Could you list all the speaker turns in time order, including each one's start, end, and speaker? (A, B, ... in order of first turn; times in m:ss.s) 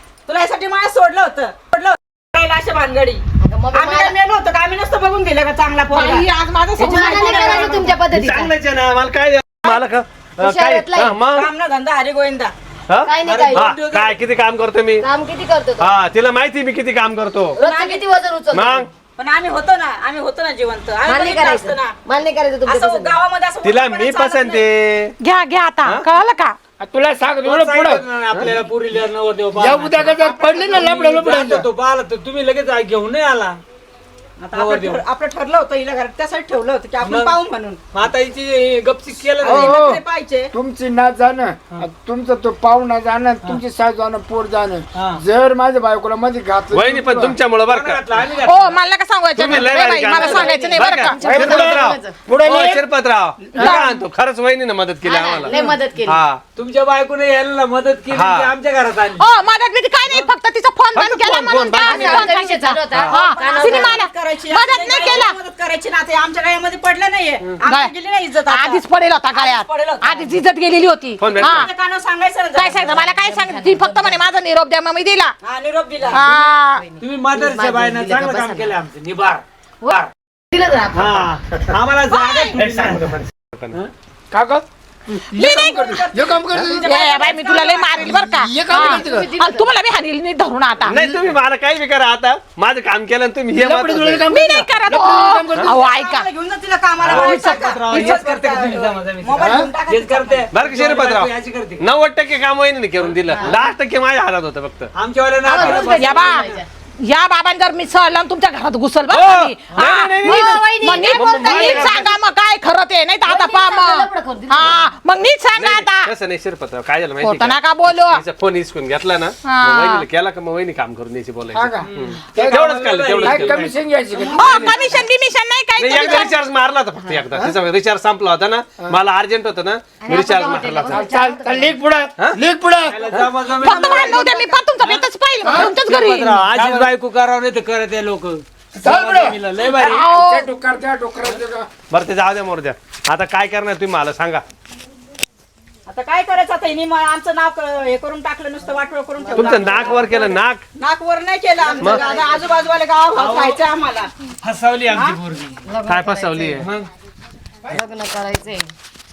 0:00.3-0:07.9 A
0:03.4-0:04.2 B
0:05.9-0:07.9 C
0:06.8-0:08.5 B
0:08.1-0:11.5 D
0:10.4-0:11.2 B
0:11.3-0:12.5 A
0:12.9-0:15.1 D
0:13.0-0:13.8 B
0:13.3-0:14.2 E
0:15.0-0:15.9 B
0:15.8-0:17.6 D
0:17.6-0:18.9 B
0:17.6-0:18.0 A
0:18.5-0:18.9 D
0:19.2-0:22.0 A
0:21.1-0:23.2 B
0:22.7-0:24.6 A
0:23.6-0:25.2 D
0:25.2-0:26.6 C
0:26.8-0:28.0 F
0:27.4-0:33.6 E
0:29.6-0:31.7 F
0:34.4-0:37.9 A
0:34.5-0:35.0 E
0:37.0-0:37.3 E
0:37.9-0:39.6 E
0:39.4-0:40.5 A
0:39.4-0:40.0 F
0:40.5-0:47.4 F
0:45.0-0:45.2 E
0:46.7-0:48.0 D
0:47.7-0:48.8 E
0:48.4-0:51.2 C
0:49.4-0:56.4 D
0:50.1-0:52.2 B
0:51.2-0:52.8 F
0:53.5-0:53.8 F
0:53.6-0:53.9 B
0:55.0-0:56.2 B
0:56.6-0:59.3 E
0:58.1-0:58.5 D
0:59.2-1:05.4 C
1:00.9-1:02.3 D
1:01.8-1:04.0 B
1:03.1-1:08.8 A
1:07.6-1:07.9 C
1:08.4-1:11.7 C
1:09.3-1:10.3 A
1:11.2-1:11.6 D
1:11.4-1:13.1 A
1:12.5-1:15.3 C
1:13.1-1:14.2 B
1:15.4-1:16.2 A
1:16.1-1:16.9 C
1:16.1-1:18.7 B
1:17.0-1:20.1 E
1:19.8-1:21.3 B
1:20.9-1:23.1 E
1:22.1-1:22.6 C
1:22.5-1:23.8 D
1:24.3-1:26.9 F
1:25.3-1:28.2 A
1:25.4-1:25.9 C
1:26.8-1:31.0 C
1:28.0-1:29.3 F
1:28.7-1:29.7 B
1:30.8-1:34.3 D
1:30.9-1:31.3 F
1:33.5-1:35.9 F
1:34.3-1:36.3 C
1:35.6-1:40.5 A
1:37.0-1:41.8 E
1:37.2-1:38.2 C
1:39.4-1:39.8 F
1:40.5-1:44.9 D
1:45.0-1:46.1 E
1:45.4-1:46.7 B
1:45.6-1:46.0 D
1:46.0-1:56.1 C
1:49.1-1:52.1 D
1:50.2-1:52.1 B
1:53.2-1:54.9 B
1:55.5-2:03.6 D
1:57.2-1:58.2 C
1:59.4-2:00.1 C
2:01.5-2:05.0 F
2:02.6-2:03.8 E
2:04.3-2:06.3 C
2:05.8-2:11.1 D
2:10.0-2:11.8 B
2:10.8-2:13.0 F
2:12.9-2:13.9 E
2:13.6-2:16.4 C
2:13.6-2:14.5 A
2:13.7-2:14.2 B
2:14.8-2:15.1 E
2:15.4-2:15.8 F
2:15.7-2:16.9 D
2:16.4-2:20.1 E
2:18.8-2:19.4 F
2:19.6-2:20.5 C
2:20.0-2:21.7 F
2:21.9-2:24.4 D
2:25.9-2:34.1 A
2:29.2-2:30.1 B
2:29.3-2:30.7 D
2:31.6-2:32.6 B
2:33.2-2:33.6 E
2:34.4-2:35.6 E
2:34.9-2:35.2 A
2:35.7-2:36.7 B
2:35.9-2:36.7 D
2:36.6-2:36.9 E
2:37.7-2:38.7 B